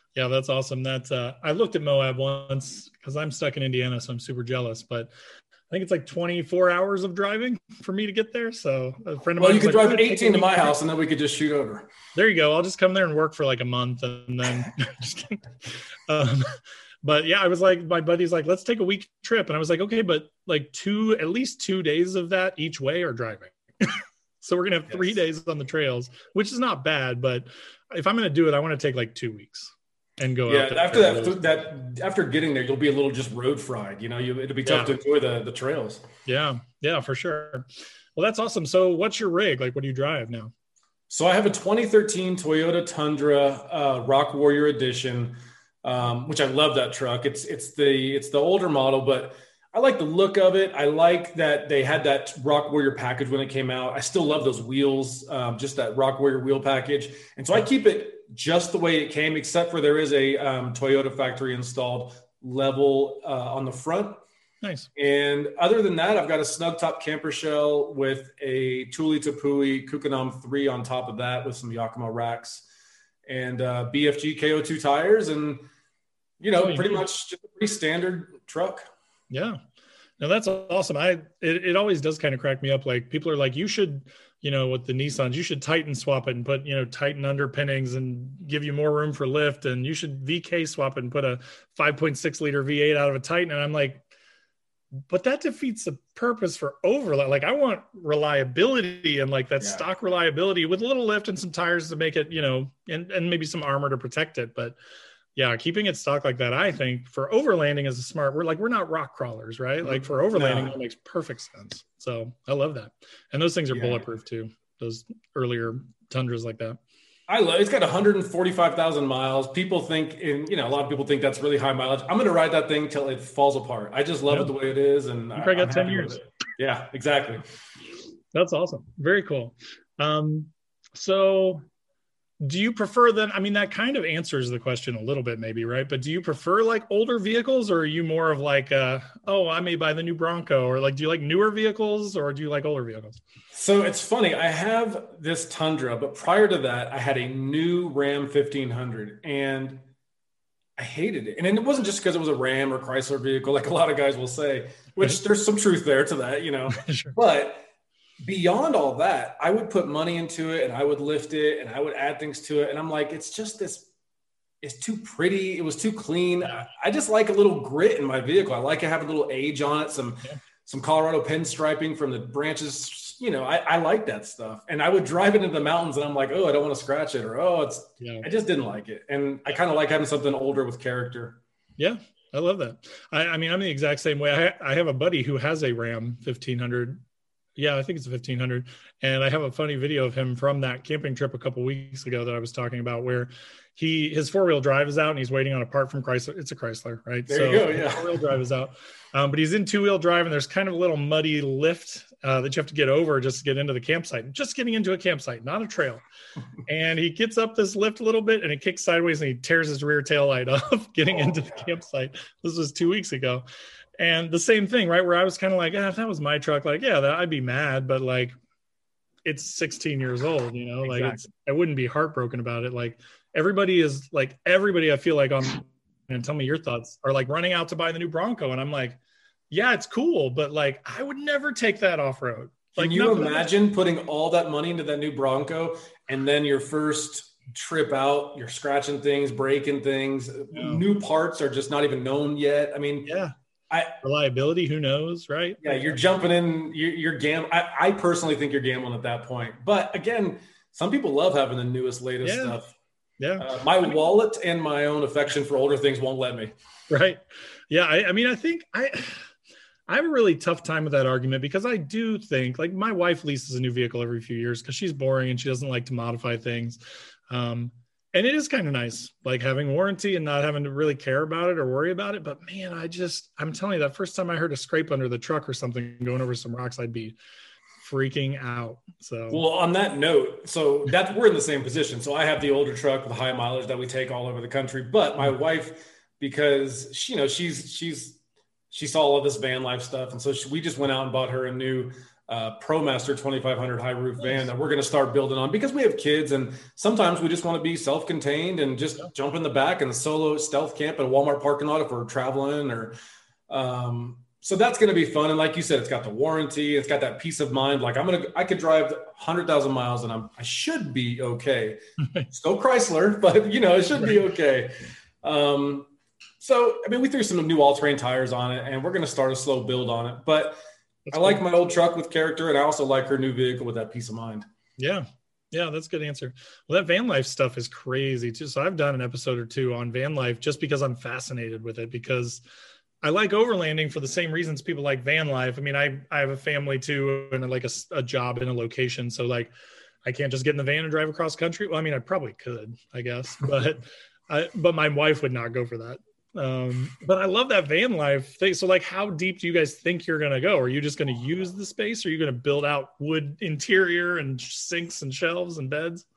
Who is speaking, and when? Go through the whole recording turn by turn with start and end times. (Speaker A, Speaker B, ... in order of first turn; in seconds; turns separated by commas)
Speaker A: 0.1-5.1, Speaker A: 5.7-10.7, Speaker B: 9.4-11.9, Speaker A: 12.1-31.4, Speaker B: 30.5-36.1, Speaker A: 34.6-35.0, Speaker A: 36.2-40.5, Speaker B: 41.1-64.2, Speaker A: 64.6-64.9, Speaker B: 65.0-72.7, Speaker B: 73.2-75.6, Speaker B: 76.4-78.8, Speaker A: 76.6-77.0, Speaker A: 79.3-79.6, Speaker A: 80.2-94.0, Speaker A: 95.1-104.8, Speaker B: 99.6-99.8, Speaker A: 105.3-116.8, Speaker B: 109.8-110.7, Speaker B: 113.7-114.0, Speaker B: 117.3-127.4, Speaker A: 125.3-126.2, Speaker A: 128.3-131.6, Speaker A: 132.4-143.2, Speaker B: 143.5-149.8, Speaker B: 150.8-157.7, Speaker A: 156.7-157.2, Speaker B: 158.2-163.9, Speaker B: 164.6-181.4, Speaker A: 178.0-178.2, Speaker A: 181.8-187.0, Speaker A: 187.6-206.0, Speaker B: 197.3-198.1, Speaker A: 206.7-213.4, Speaker A: 214.0-218.3, Speaker A: 219.2-229.0, Speaker B: 220.8-221.2, Speaker A: 229.5-233.5, Speaker B: 232.8-243.1, Speaker A: 240.5-240.8, Speaker A: 243.0-243.3, Speaker B: 243.7-243.9, Speaker A: 244.0-246.0, Speaker B: 245.6-252.7, Speaker A: 252.2-252.6, Speaker A: 253.2-253.5, Speaker B: 253.4-256.5, Speaker A: 256.9-259.3, Speaker A: 259.9-277.2, Speaker A: 277.8-279.4, Speaker B: 279.3-288.2, Speaker B: 288.7-302.9, Speaker B: 303.5-315.9, Speaker B: 316.4-320.6, Speaker A: 321.1-321.4, Speaker B: 321.1-324.4, Speaker A: 324.8-332.4, Speaker A: 333.0-339.5, Speaker A: 340.0-356.1